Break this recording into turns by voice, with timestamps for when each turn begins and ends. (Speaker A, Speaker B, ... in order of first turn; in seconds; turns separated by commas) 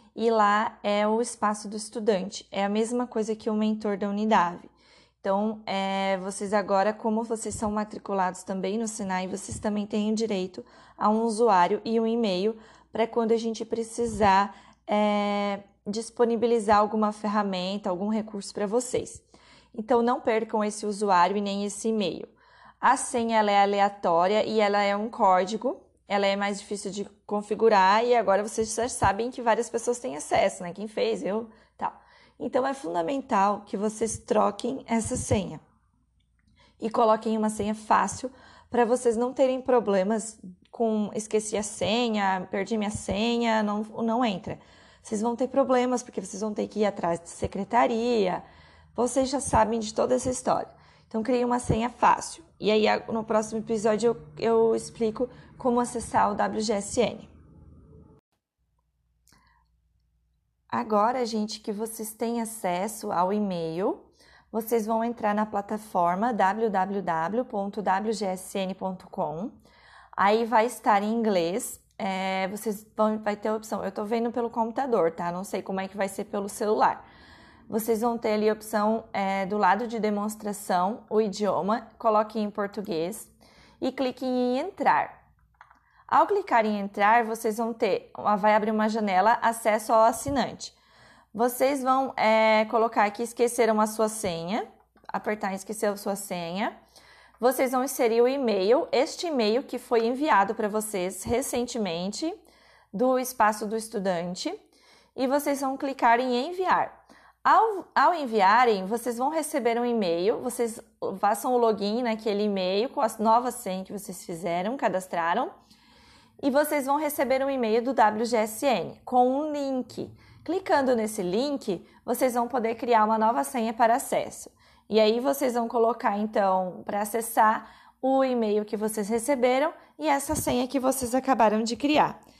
Speaker A: 0.1-4.7, Speaker A: 5.2-22.3, Speaker A: 22.8-35.6, Speaker A: 36.8-48.4, Speaker A: 48.9-57.3, Speaker A: 60.7-69.6, Speaker A: 70.2-77.0, Speaker A: 77.7-85.2, Speaker A: 86.1-90.7, Speaker A: 91.3-96.8, Speaker A: 97.4-102.4, Speaker A: 102.9-104.5, Speaker A: 105.2-115.5, Speaker A: 116.4-132.2